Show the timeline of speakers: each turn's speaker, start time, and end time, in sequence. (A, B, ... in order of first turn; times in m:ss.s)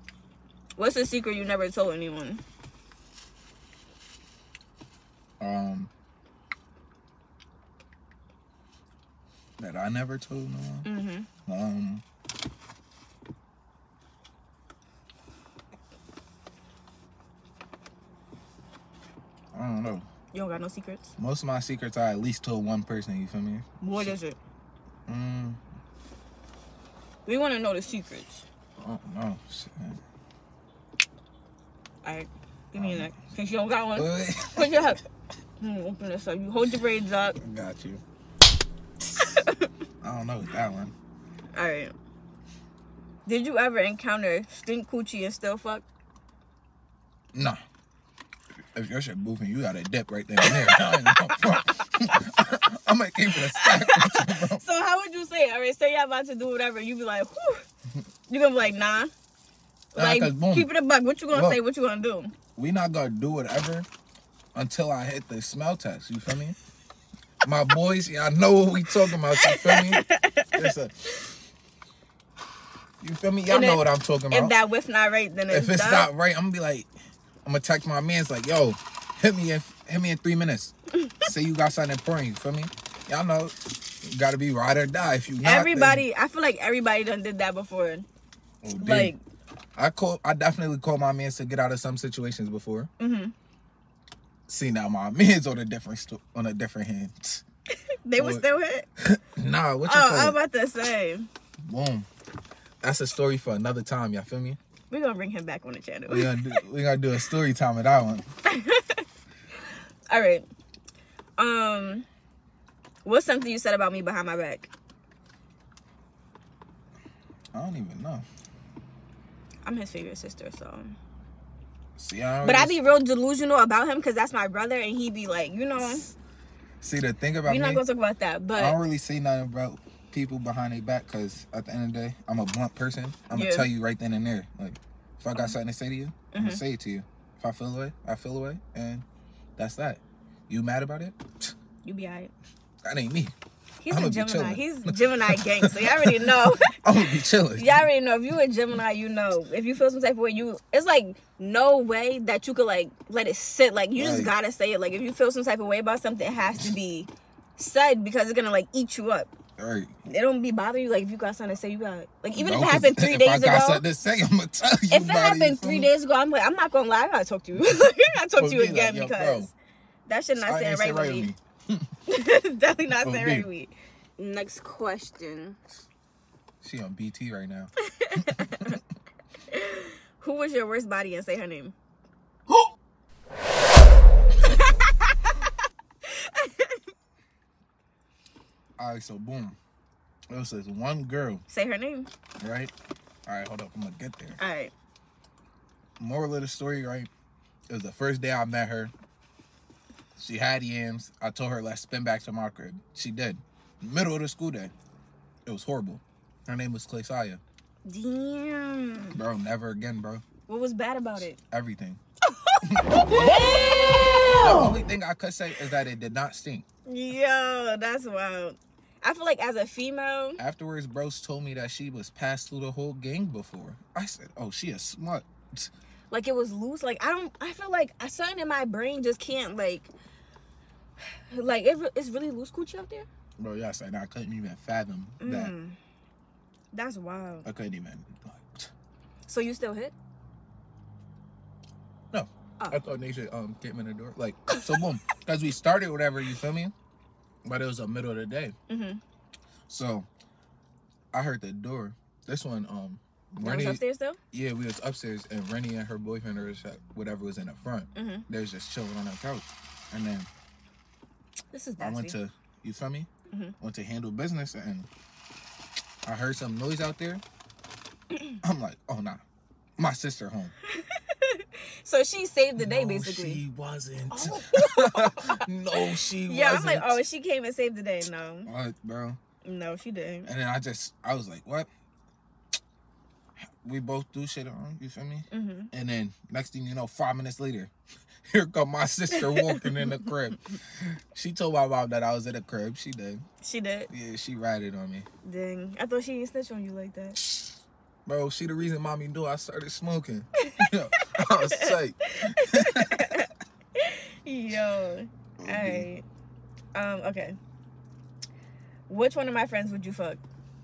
0:00.8-0:02.4 A
0:05.4-0:05.9 B
0:09.6-0:10.9 B
0:10.8-0:11.3 A
0:11.5-0:12.0 B
0:19.5-0:20.0 B
0:20.3-0:21.2 A
0:21.2-0:24.1 B
0:23.8-0:24.4 A
0:25.1-0:25.6 B
0:27.3-0:28.4 A
0:28.8-0:30.0 B
0:32.0-0:35.0 A
0:32.8-0:33.1 B
0:34.0-0:34.9 B
0:35.6-0:37.4 A
0:37.4-0:38.0 B
0:39.1-0:39.7 A
0:40.0-0:40.9 B
0:41.5-0:41.9 A
0:43.3-0:45.9 A
0:47.3-0:47.6 B
0:48.7-0:54.6 B
0:50.4-0:51.6 A
0:53.3-0:57.6 A
0:58.3-0:59.1 A
1:00.0-1:02.3 A
1:00.0-1:00.7 B
1:01.3-1:01.6 B
1:02.6-1:03.9 B
1:04.6-1:06.6 B
1:07.4-1:11.3 B
1:09.1-1:10.7 A
1:13.0-1:14.6 B
1:13.5-1:16.1 A
1:15.5-1:16.9 B
1:17.4-1:26.0 B
1:25.4-1:28.1 A
1:28.6-1:29.1 B
1:28.8-1:29.2 A
1:29.8-1:32.9 B
1:33.0-1:33.3 A
1:34.5-1:37.4 B
1:38.0-1:38.9 A
1:38.2-1:38.4 B
1:39.0-1:40.4 B
1:39.8-1:41.3 A
1:41.7-1:42.1 B
1:42.8-1:44.6 B
1:44.9-1:46.6 A
1:46.1-1:48.2 B
1:48.5-1:49.0 A
1:50.1-1:50.5 A
1:51.4-1:52.1 A
1:53.0-1:54.7 A
1:57.5-1:58.3 B
1:59.6-2:01.0 A
2:02.0-2:02.8 B
2:02.4-2:06.1 A
2:06.8-2:07.8 B
2:07.4-2:08.8 A
2:08.6-2:19.1 B
2:13.3-2:13.7 A
2:16.3-2:16.6 A
2:19.6-2:21.5 B
2:21.8-2:22.3 A
2:22.8-2:23.3 B
2:23.8-2:39.3 A
2:23.9-2:27.8 B
2:34.0-2:34.3 B
2:39.6-2:39.9 B
2:40.1-2:43.8 A
2:42.3-2:45.9 B
2:44.9-2:49.5 A
2:48.4-2:49.5 B
2:50.1-2:51.3 A
2:50.4-2:51.9 B
2:52.1-2:55.6 A
2:53.0-2:53.5 B
2:56.6-2:58.8 B
2:57.8-2:58.8 A
2:59.5-3:01.8 A
3:04.4-3:05.5 A
3:06.0-3:06.8 A
3:08.8-3:09.6 B
3:10.3-3:11.4 B
3:11.5-3:12.1 A
3:12.4-3:12.7 B
3:13.3-3:14.4 B
3:14.4-3:14.7 A
3:16.0-3:17.1 B
3:17.7-3:18.9 B
3:20.2-3:24.7 B
3:25.5-3:27.4 B
3:27.9-3:29.2 A
3:29.1-3:30.2 B
3:30.5-3:31.4 A
3:31.5-3:32.0 B
3:32.3-3:34.8 A
3:32.6-3:33.3 B
3:34.4-3:36.6 B
3:36.9-3:40.4 A
3:40.4-3:45.7 B
3:46.1-3:49.9 A
3:51.0-3:53.1 A
3:53.4-3:55.5 B
3:55.2-3:55.8 A
3:56.7-3:57.5 A
3:57.4-3:58.7 B
3:59.3-3:59.9 A
4:02.1-4:06.7 B
4:07.4-4:08.6 B
4:08.7-4:09.0 A
4:09.7-4:10.1 B
4:11.1-4:20.3 B
4:13.4-4:14.2 A
4:18.0-4:18.2 A
4:21.5-4:22.2 A
4:21.8-4:23.1 B
4:23.6-4:24.9 B
4:26.0-4:27.2 B
4:28.4-4:29.2 B
4:29.8-4:30.5 B
4:30.7-4:33.4 A
4:32.6-4:37.0 B
4:34.1-4:35.4 A
4:36.2-4:38.5 A
4:38.5-4:39.2 B
4:39.4-4:40.3 A
4:40.2-4:41.7 B
4:43.6-4:47.7 B
4:45.3-4:45.7 A
4:48.3-4:53.2 B
4:49.1-4:49.9 A
4:53.4-4:53.9 A
4:53.9-4:55.1 B
4:55.2-4:57.2 A
4:58.1-5:03.3 B
5:00.4-5:06.0 A
5:05.4-5:05.9 B
5:06.7-5:07.4 A
5:08.9-5:10.2 A